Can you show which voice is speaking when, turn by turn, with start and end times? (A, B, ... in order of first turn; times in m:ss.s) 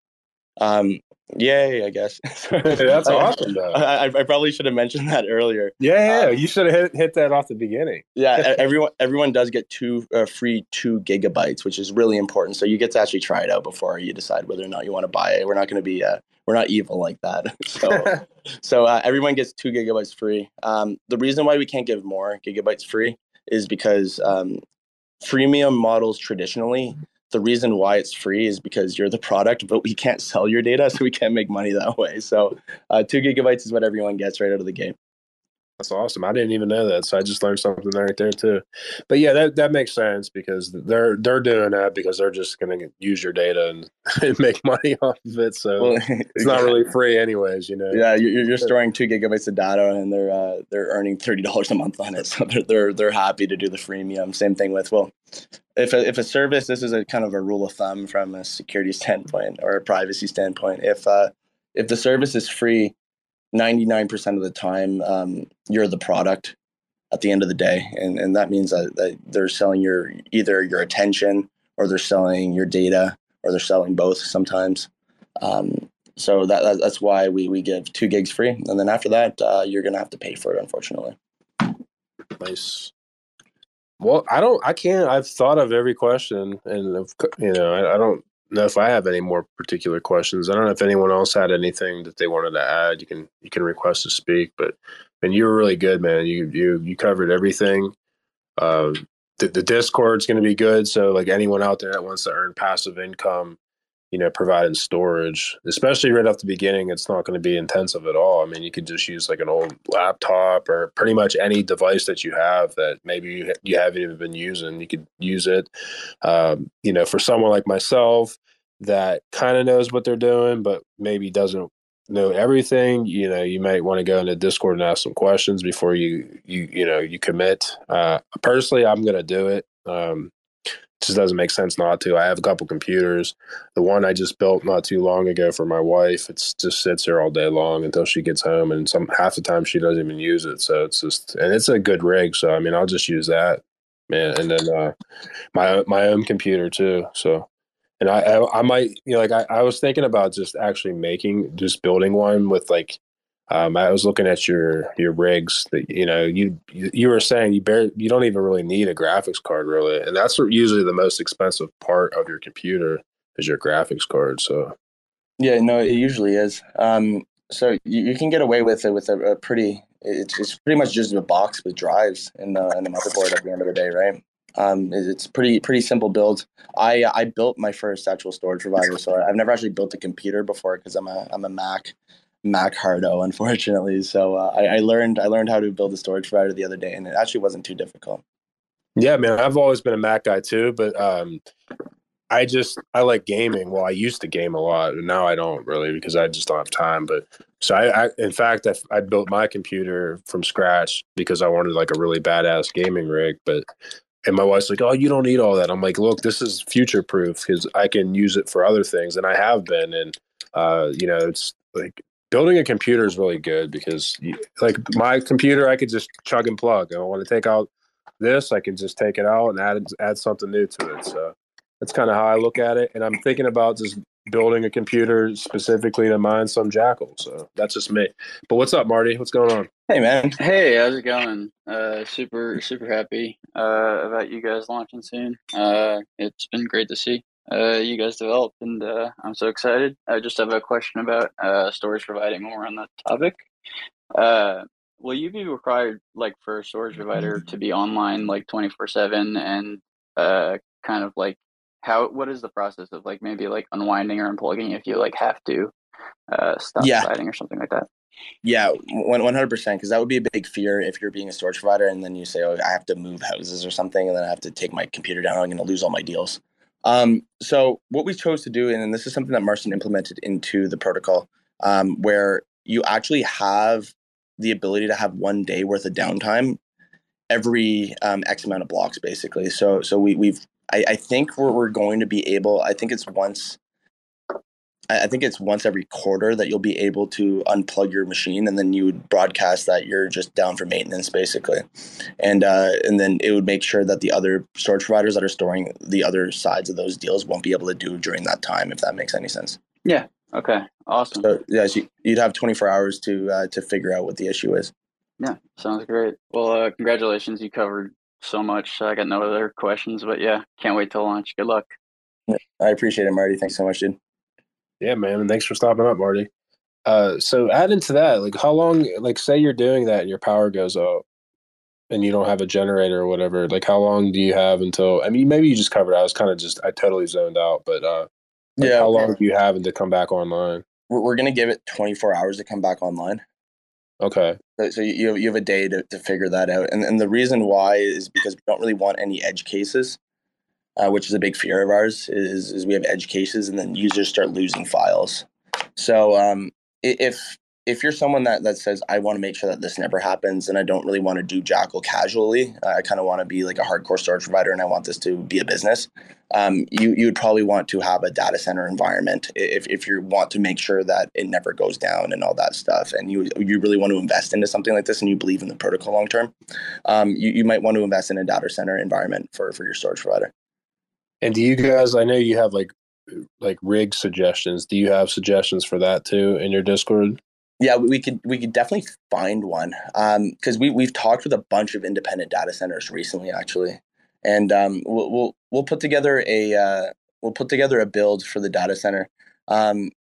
0:00.6-0:06.3 A
0:02.6-0:03.8 B
0:05.8-0:08.5 B
0:08.2-0:24.6 A
0:17.9-0:18.2 B
0:25.2-0:34.9 A
0:35.8-0:48.1 B
0:45.8-0:46.8 A
0:47.9-0:55.1 A
0:55.8-1:02.9 A
1:03.5-1:06.5 A
1:07.1-1:14.9 A
1:15.4-1:21.2 A
1:22.4-1:22.9 B
1:24.0-1:37.9 B
1:38.6-1:43.6 B
1:44.1-1:55.7 B
1:56.2-2:10.3 B
2:11.0-2:24.9 B
2:25.5-2:27.5 B
2:28.0-2:33.0 B
2:33.5-2:44.8 B
2:45.4-3:08.2 A
3:09.0-3:11.4 B
3:12.3-3:23.6 B
3:24.2-3:37.7 B
3:38.2-3:49.7 B
3:49.9-3:50.4 A
3:50.4-4:03.4 C
4:04.1-4:15.7 C
4:16.3-4:17.9 C
4:16.8-4:17.1 A
4:18.4-4:36.6 A
4:37.3-4:43.6 A
4:44.9-4:51.6 A
4:52.2-4:59.6 A
4:59.8-5:01.3 C
5:01.2-5:04.7 A
5:05.2-5:11.7 C
5:12.3-5:14.0 A
5:14.8-5:16.3 B
5:16.8-5:21.0 B
5:21.9-5:28.1 B
5:28.6-5:29.1 A
5:28.6-5:30.6 B
5:30.9-5:33.2 A
5:34.0-5:34.4 B
5:34.6-5:40.0 A
5:40.8-5:45.2 A
5:45.8-6:06.3 A
6:06.8-6:10.3 A
6:11.2-6:17.2 B
6:17.6-6:29.9 A